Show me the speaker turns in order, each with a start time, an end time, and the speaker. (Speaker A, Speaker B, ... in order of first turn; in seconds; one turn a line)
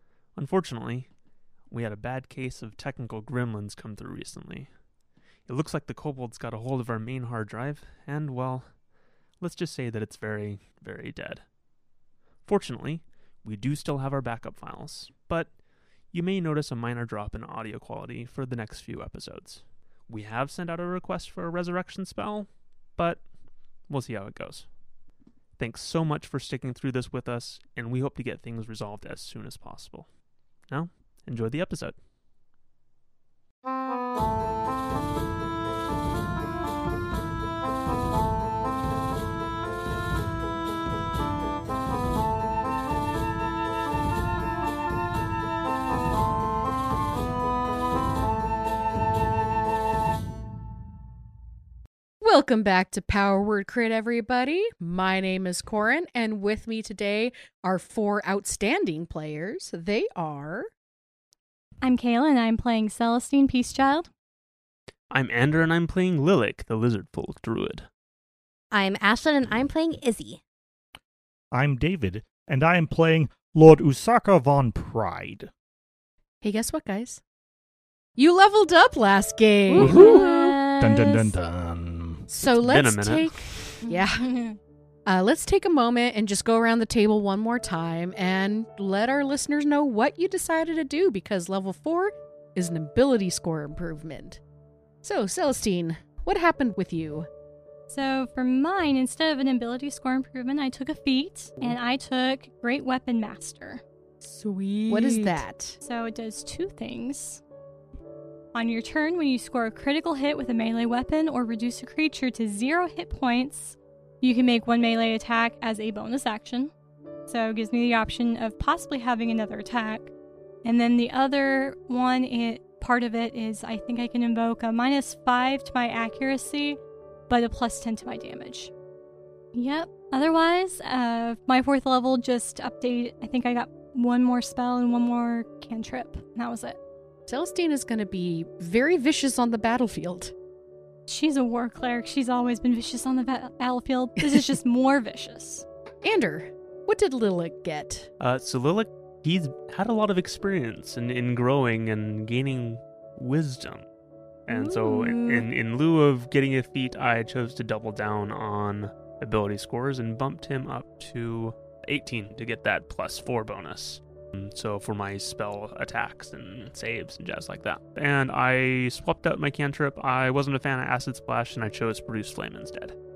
Speaker A: 0.3-1.1
Speaker A: 1.7-4.8
Speaker A: 5.5-8.8
Speaker A: 9.3-11.5
Speaker A: 12.4-23.3
Speaker A: 23.8-24.7
Speaker A: 25.6-32.0
Speaker B: 52.2-60.7
Speaker C: 61.8-64.1
Speaker A: 65.1-67.9
Speaker D: 68.7-70.4
Speaker E: 71.5-75.5
Speaker B: 76.4-77.2
Speaker B: 78.2-80.2
Speaker D: 79.7-81.3
Speaker E: 79.8-80.3
Speaker C: 79.9-80.5
Speaker E: 80.8-82.3
Speaker B: 82.3-84.3
Speaker A: 82.4-83.8
Speaker C: 83.8-84.6
Speaker B: 85.0-94.4
Speaker B: 95.0-97.3
Speaker C: 97.9-103.8
Speaker C: 104.7-107.4
Speaker B: 104.9-105.8
Speaker C: 108.5-116.7
Speaker C: 117.3-120.1
Speaker C: 120.6-128.7
Speaker C: 129.5-136.8
Speaker B: 137.3-140.3
Speaker C: 141.1-145.6
Speaker B: 146.0-148.1
Speaker A: 148.2-153.9
Speaker A: 154.5-173.0
Speaker C: 154.5-155.4